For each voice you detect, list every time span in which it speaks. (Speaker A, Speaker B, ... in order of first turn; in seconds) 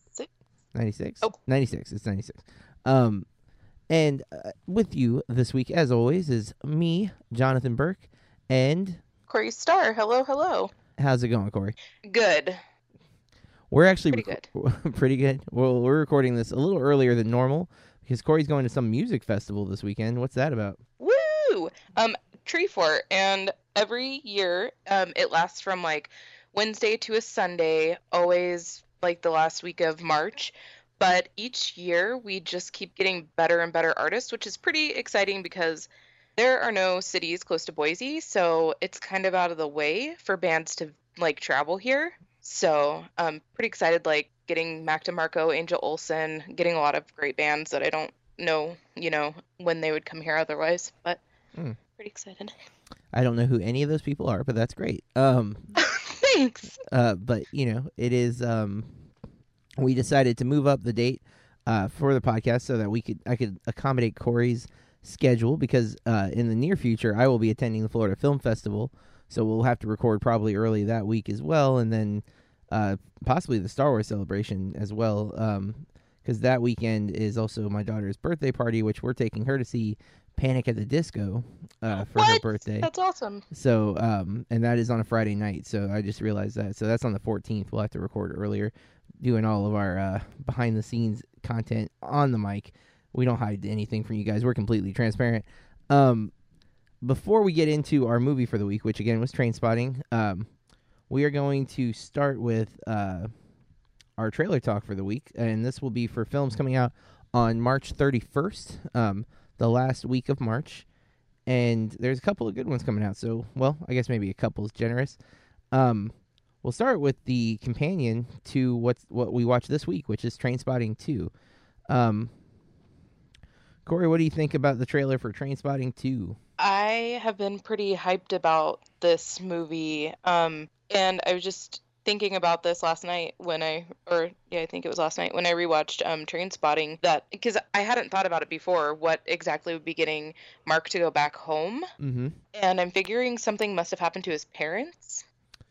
Speaker A: 0.7-3.3, 3.9-9.0, 11.0-11.8, 13.7-20.8, 53.1-55.8, 56.8-59.0, 59.8-82.9, 83.5-96.3, 97.0-100.5, 101.1-103.3, 104.2-110.9, 111.5-115.2, 115.7-121.3, 121.9-122.3, 123.9-126.4, 142.0-142.4
Speaker B: 9.3-10.7, 12.1-12.6, 14.1-14.5, 21.0-51.2, 52.0-52.5, 55.8-56.8, 82.0-83.4, 126.6-141.9, 142.5-145.2